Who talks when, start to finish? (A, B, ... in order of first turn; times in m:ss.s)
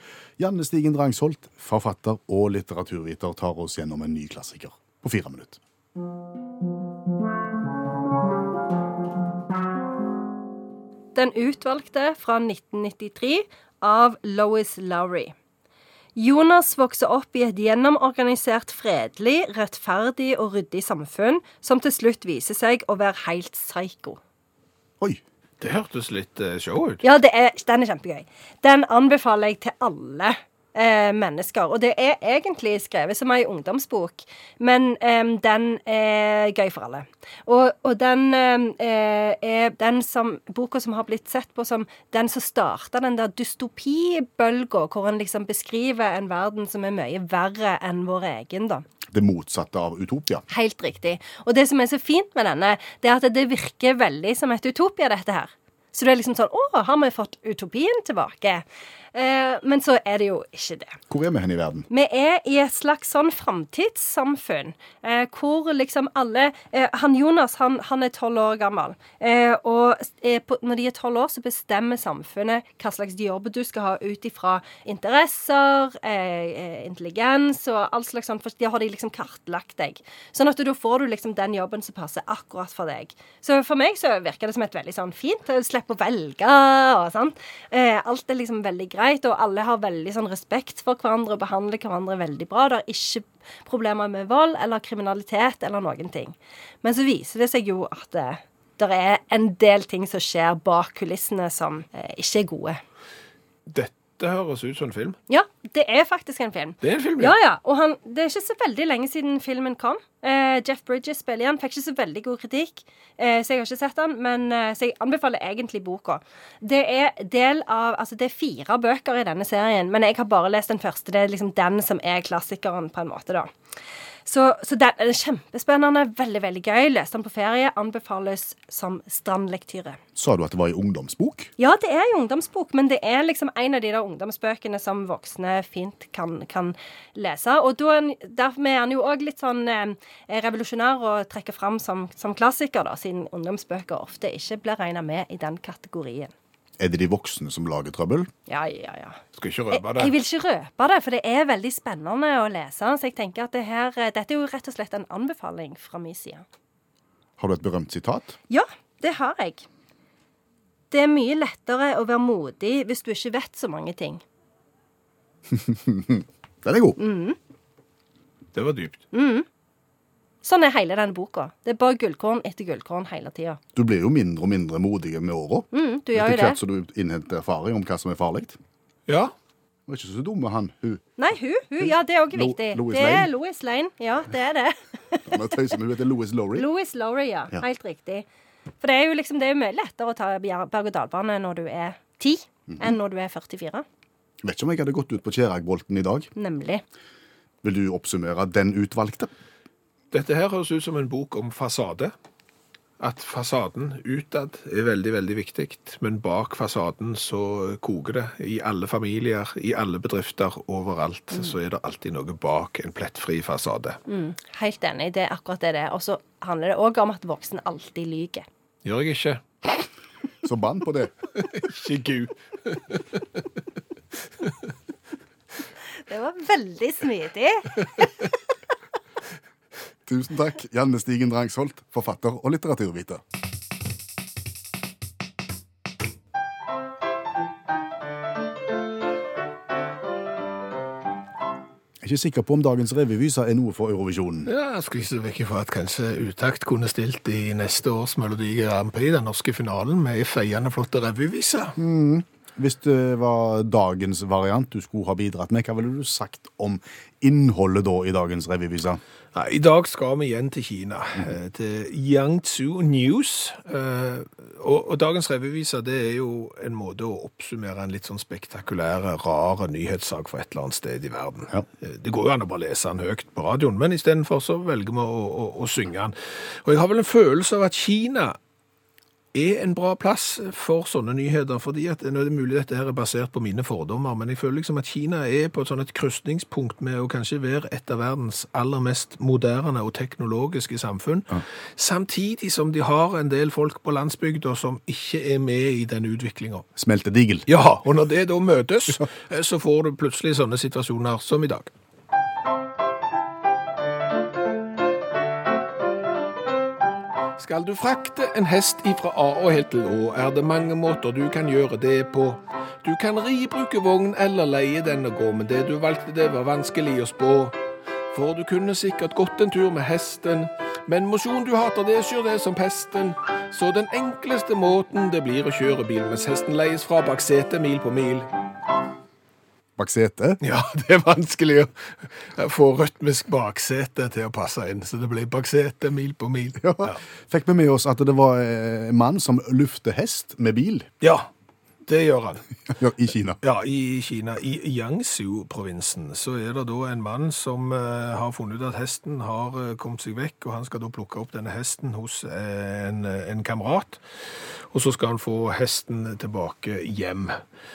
0:00.4-0:05.6 A
0:11.1-0:15.3 B
0:16.2-0:24.2 B
0:25.6-0:27.0 C
0:27.0-0:48.8 B
0:49.1-0:50.4 A
0:50.5-1:01.0 B
1:01.1-1:01.9 A
1:01.9-1:42.8 B
1:43.7-1:45.2 C
1:45.3-2:03.5 B
1:46.8-1:47.3 C
2:04.2-2:10.0 B
2:10.2-2:11.5 A
2:11.6-2:26.3 B
2:26.8-2:28.3 A
2:28.5-2:29.2 B
2:29.3-2:30.1 C
2:29.7-2:36.4 B
2:37.4-2:38.3 A
2:38.5-2:39.6 B
2:40.9-2:44.2 B
2:45.5-2:47.0 A
2:47.0-2:47.4 B
2:48.5-2:49.0 C
2:49.1-2:49.4 B
2:50.4-2:53.6 B
2:53.7-2:58.6 A
2:55.7-2:56.6 B
2:59.1-2:59.3 C
2:59.9-3:01.0 A
3:01.2-3:05.5 B
3:02.3-3:03.3 A
3:05.2-3:06.7 A
3:06.5-3:08.2 B
3:08.8-3:13.8 B
3:14.4-3:16.3 A
3:16.4-3:16.8 B
3:17.6-3:19.3 A
3:20.1-3:22.1 C
3:23.0-3:34.0 C
3:34.1-3:38.4 B
3:38.8-3:39.4 C
3:40.4-3:41.1 A
3:41.4-3:43.2 C
3:46.0-3:48.1 B
3:50.0-3:53.2 A
4:02.0-4:04.5 A
4:04.4-4:11.8 C
4:11.8-4:19.0 A
4:19.3-4:38.4 C
4:39.3-4:56.7 C
4:56.8-4:57.5 A
4:57.5-5:01.7 C
5:07.4-5:17.5 C
5:18.1-5:28.3 C
5:29.8-5:30.4 A
5:30.4-5:37.0 C
5:36.6-5:40.9 A
5:41.0-5:41.3 C
5:41.8-5:42.4 C
5:42.7-5:43.4 A
5:43.4-5:54.0 C
5:54.7-5:57.4 C